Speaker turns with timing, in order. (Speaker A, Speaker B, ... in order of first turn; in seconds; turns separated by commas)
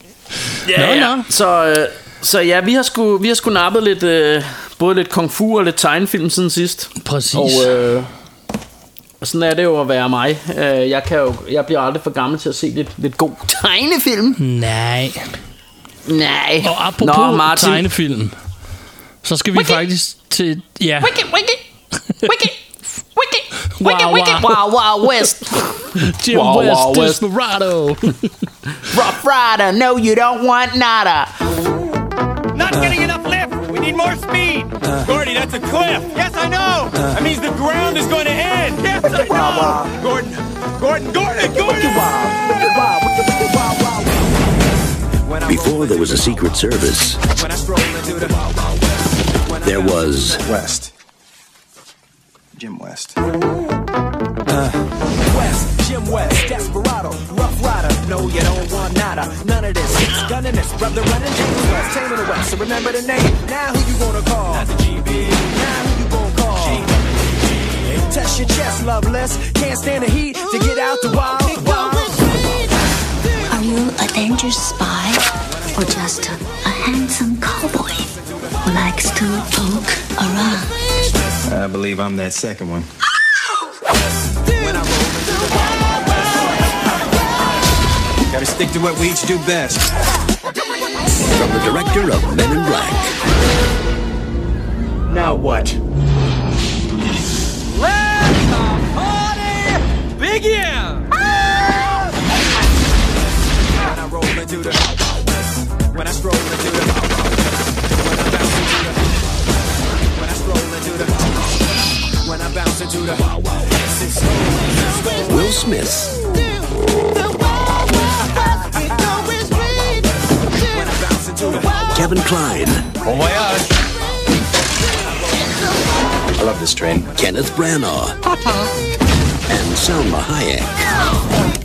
Speaker A: 0.5-1.3, Speaker B: 0.6-8.1, Speaker A: 7.0-7.8, Speaker B: 9.2-14.4, Speaker A: 14.4-15.4, Speaker B: 16.1-17.9, Speaker A: 16.6-18.4, Speaker A: 19.2-21.2, Speaker B: 19.5-19.8, Speaker B: 21.0-21.6, Speaker B: 22.2-22.6, Speaker B: 23.1-27.2, Speaker A: 23.8-24.6, Speaker A: 25.9-28.3, Speaker B: 28.8-31.3, Speaker C: 32.5-42.0, Speaker D: 39.1-40.0, Speaker D: 41.4-44.2, Speaker D: 45.3-46.3, Speaker E: 45.5-47.2, Speaker D: 47.3-48.4, Speaker D: 49.5-50.1, Speaker E: 49.6-50.4, Speaker F: 50.4-50.9, Speaker F: 52.6-53.1, Speaker D: 55.2-66.9, Speaker D: 67.8-72.2, Speaker G: 73.5-80.7, Speaker F: 81.5-82.9, Speaker D: 84.6-85.5, Speaker F: 88.3-89.8, Speaker E: 91.3-93.2, Speaker D: 95.2-95.7, Speaker C: 100.2-101.0, Speaker D: 103.8-104.8, Speaker D: 106.0-106.9, Speaker D: 110.2-111.1, Speaker D: 112.2-113.3, Speaker D: 114.1-115.3, Speaker E: 115.1-116.2, Speaker D: 118.8-119.5, Speaker D: 120.7-121.9, Speaker E: 121.9-122.9, Speaker C: 123.1-123.7, Speaker E: 126.4-128.2, Speaker E: 129.5-130.9